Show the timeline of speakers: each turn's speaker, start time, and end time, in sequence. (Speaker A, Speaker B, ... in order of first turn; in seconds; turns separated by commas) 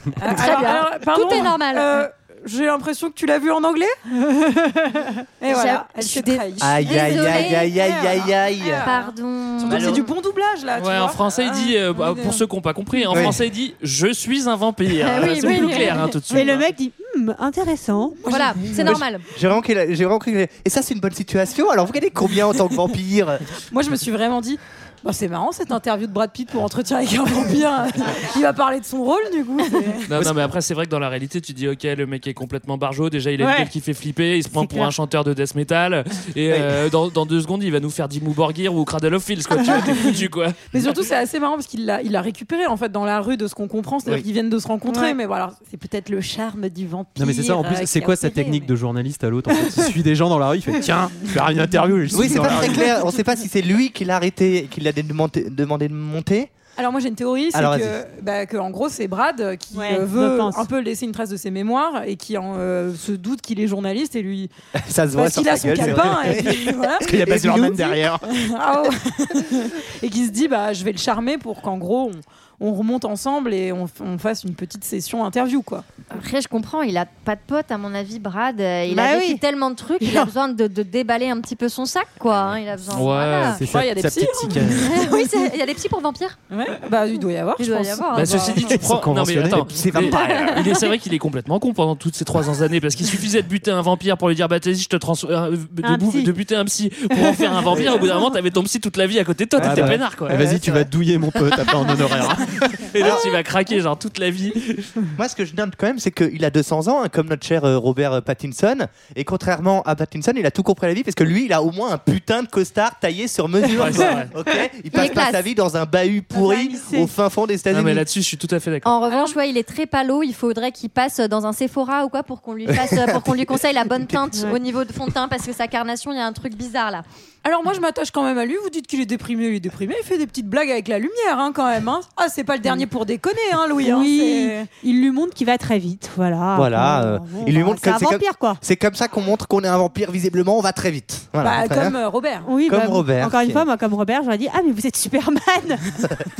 Speaker A: 0.2-4.0, Speaker B: 0.2-2.1, Speaker C: 4.3-5.1, Speaker A: 5.4-12.4, Speaker B: 5.5-7.8, Speaker D: 6.6-8.9, Speaker B: 8.6-10.1, Speaker D: 9.7-10.1, Speaker E: 10.8-16.6, Speaker D: 13.1-13.4, Speaker B: 15.0-16.1, Speaker C: 16.3-18.3, Speaker B: 18.2-19.3, Speaker A: 18.2-19.0, Speaker D: 18.8-23.5, Speaker A: 23.7-30.1, Speaker E: 30.1-40.8, Speaker C: 33.4-33.7, Speaker C: 34.6-34.9, Speaker A: 40.7-48.7, Speaker C: 44.9-45.2, Speaker F: 47.2-52.9, Speaker D: 52.1-56.5, Speaker A: 56.8-64.5, Speaker D: 57.5-58.0, Speaker C: 59.7-60.7, Speaker D: 64.8-67.9, Speaker A: 65.1-67.1, Speaker F: 67.0-68.2, Speaker A: 68.2-75.8, Speaker B: 76.1-83.6, Speaker C: 78.9-79.4, Speaker C: 80.0-80.3, Speaker E: 82.9-83.6, Speaker F: 83.6-85.1, Speaker A: 83.6-85.5, Speaker B: 84.8-86.4, Speaker A: 86.5-88.9, Speaker B: 87.6-88.5, Speaker E: 88.1-100.4, Speaker F: 88.6-90.0, Speaker D: 89.7-90.6, Speaker C: 95.8-96.3, Speaker C: 97.1-98.3, Speaker D: 99.6-100.9, Speaker F: 99.6-103.0, Speaker E: 102.9-104.9, Speaker D: 103.0-103.3, Speaker D: 105.2-118.0, Speaker C: 113.7-114.3, Speaker E: 113.8-114.3, Speaker B: 114.9-115.5, Speaker C: 116.3-117.1, Speaker E: 117.7-118.9, Speaker B: 118.8-127.0, Speaker A: 119.1-119.4, Speaker D: 122.7-123.5, Speaker C: 124.3-124.6, Speaker A: 127.4-134.7, Speaker C: 133.8-138.6, Speaker D: 136.6-142.0, Speaker A: 141.4-142.5, Speaker C: 142.5-146.1, Speaker D: 142.7-143.7